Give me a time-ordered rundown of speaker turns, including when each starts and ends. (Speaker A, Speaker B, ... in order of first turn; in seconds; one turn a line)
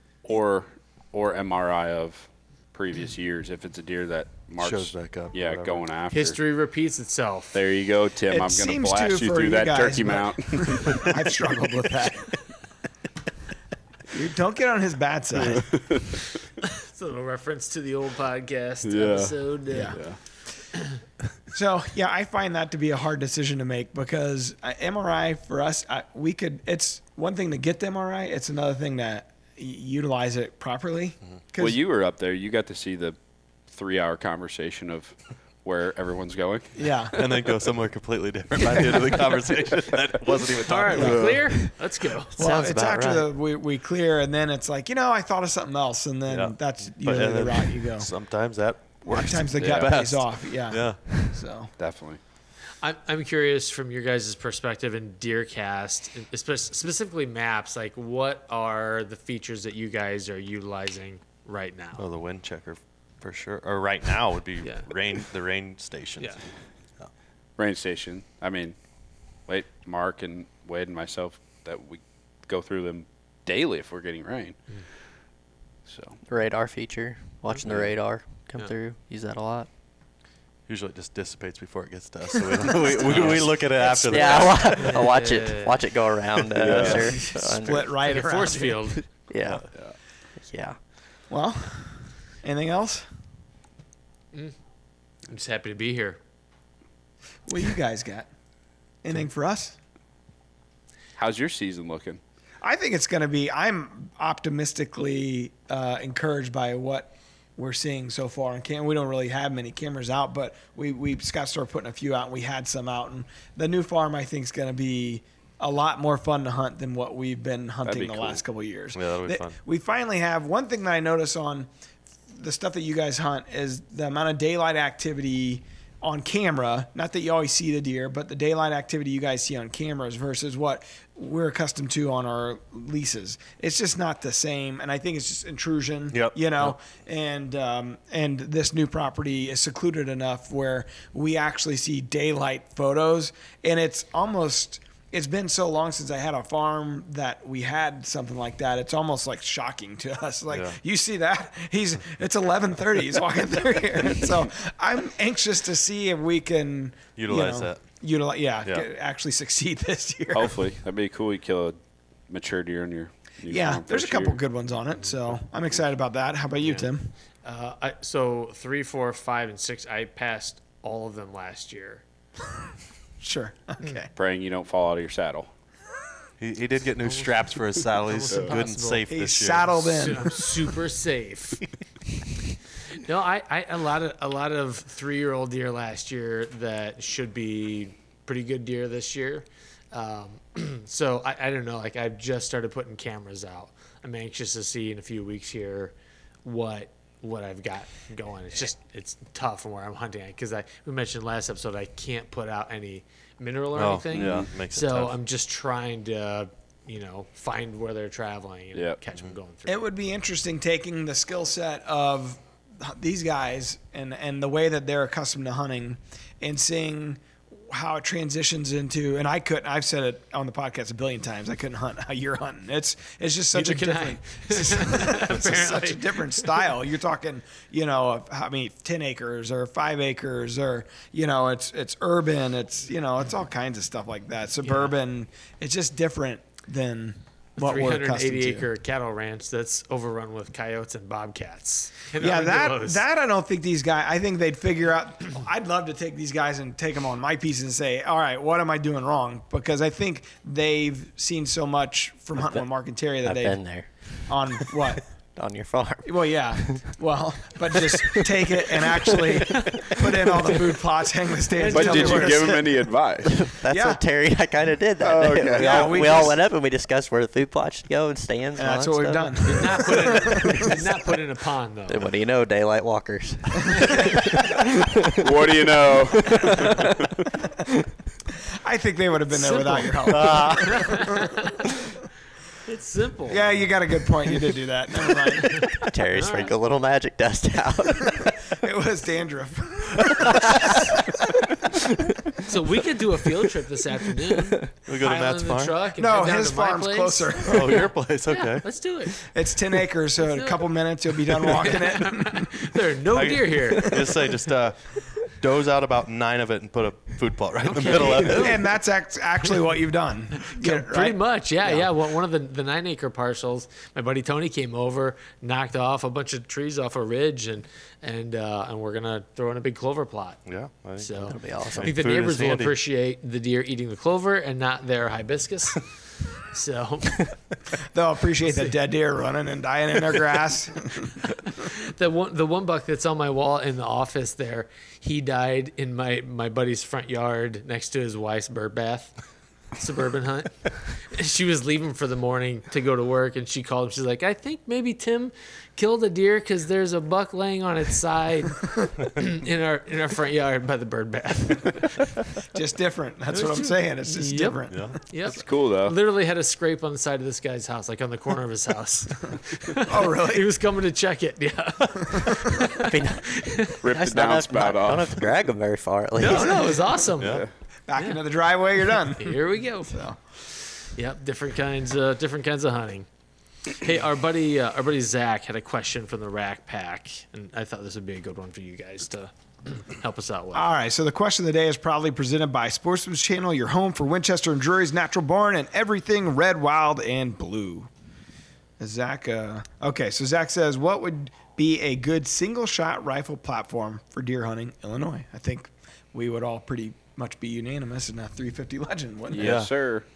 Speaker A: 0.2-6.4
Speaker B: 4.6-5.9
Speaker C: 6.1-7.6
Speaker A: 7.5-11.1
Speaker D: 8.3-12.4
Speaker D: 14.1-15.8
Speaker A: 15.3-16.1
Speaker C: 16.7-20.0
Speaker A: 18.8-20.2
Speaker D: 19.7-20.0
Speaker D: 21.5-31.8
Speaker A: 31.6-33.2
Speaker A: 33.7-36.7
Speaker D: 36.8-37.3
Speaker B: 37.1-41.4
Speaker C: 40.6-42.3
Speaker D: 40.9-41.3
Speaker A: 41.0-41.5
Speaker E: 42.3-43.3
Speaker D: 42.4-48.1
Speaker B: 46.3-51.4
Speaker D: 49.0-51.7
Speaker A: 49.6-49.9
Speaker A: 51.8-52.2
Speaker C: 52.8-62.0
Speaker B: 62.0-66.4
Speaker C: 64.6-64.9
Speaker A: 67.6-68.8
Speaker A: 69.5-74.6
Speaker A: 75.9-76.2
Speaker E: 76.3-79.7
Speaker A: 77.6-77.9
Speaker B: 80.7-84.9
Speaker E: 82.7-88.0
Speaker D: 82.7-84.6
Speaker C: 84.8-85.8
Speaker A: 86.6-87.1
Speaker B: 86.7-87.0
Speaker D: 86.8-88.9
Speaker C: 88.0-89.0
Speaker E: 89.3-89.6
Speaker E: 90.4-90.8
Speaker D: 91.3-93.1
Speaker C: 95.3-96.2
Speaker D: 97.5-98.3
Speaker D: 99.0-99.8
Speaker A: 101.2-102.2
Speaker D: 102.6-121.7
Speaker A: 117.8-118.4
Speaker B: 119.0-119.6
Speaker D: 122.3-160.6
Speaker B: 136.1-136.8
Speaker B: 150.5-150.8
Speaker B: 157.2-157.9
Speaker A: 160.3-161.8
Speaker A: 162.3-164.4
Speaker D: 163.5-167.1
Speaker C: 166.6-166.9
Speaker C: 167.4-172.0
Speaker D: 173.2-174.1
Speaker A: 174.2-175.5
Speaker B: 176.4-180.2
Speaker C: 177.0-179.1
Speaker D: 179.1-180.5
Speaker C: 179.8-181.6
Speaker C: 182.9-209.8
Speaker B: 203.8-205.2
Speaker A: 204.1-204.5
Speaker D: 209.7-238.7
Speaker C: 223.5-226.6
Speaker C: 234.6-234.9
Speaker C: 237.6-243.0
Speaker D: 242.2-253.6
Speaker E: 253.2-256.8
Speaker D: 254.3-255.1
Speaker D: 256.1-262.8
Speaker E: 257.7-260.5
Speaker C: 261.5-262.5
Speaker A: 261.7-263.4
Speaker E: 263.2-269.8
Speaker D: 263.7-264.0
Speaker A: 265.0-266.1
Speaker D: 265.3-266.4
Speaker D: 268.6-270.8
Speaker C: 269.4-272.1
Speaker E: 270.4-270.7
Speaker E: 271.9-277.1
Speaker C: 273.7-274.0
Speaker A: 275.2-277.1
Speaker D: 278.6-281.3
Speaker C: 279.4-281.7
Speaker B: 280.1-280.8
Speaker C: 282.6-283.7
Speaker D: 283.3-285.7
Speaker E: 285.7-288.3
Speaker C: 286.1-286.5
Speaker D: 288.6-291.5
Speaker E: 290.2-290.9
Speaker C: 292.4-299.2
Speaker B: 294.9-295.8
Speaker D: 295.9-297.9
Speaker B: 297.4-298.7
Speaker D: 299.2-302.7
Speaker C: 300.2-300.7
Speaker C: 301.4-304.1
Speaker B: 303.1-308.7
Speaker D: 303.8-304.3
Speaker C: 307.7-308.7
Speaker D: 308.3-311.9
Speaker C: 310.4-320.4
Speaker B: 320.5-322.8
Speaker C: 321.0-325.8
Speaker E: 321.3-322.0
Speaker C: 326.3-327.3
Speaker D: 327.9-331.2
Speaker C: 331.5-339.1
Speaker C: 339.8-352.1
Speaker D: 352.5-354.9
Speaker C: 353.4-363.8
Speaker B: 354.7-355.0
Speaker A: 355.3-355.9
Speaker D: 359.9-360.5
Speaker E: 362.8-366.8
Speaker A: 363.8-365.3
Speaker C: 366.2-368.2
Speaker B: 367.2-367.5
Speaker A: 367.2-367.5
Speaker D: 367.9-369.4
Speaker C: 369.1-370.0
Speaker D: 369.9-370.2
Speaker C: 370.8-373.1
Speaker C: 373.7-380.7
Speaker D: 380.5-387.9
Speaker D: 388.8-399.6
Speaker A: 399.3-400.1
Speaker B: 399.4-399.7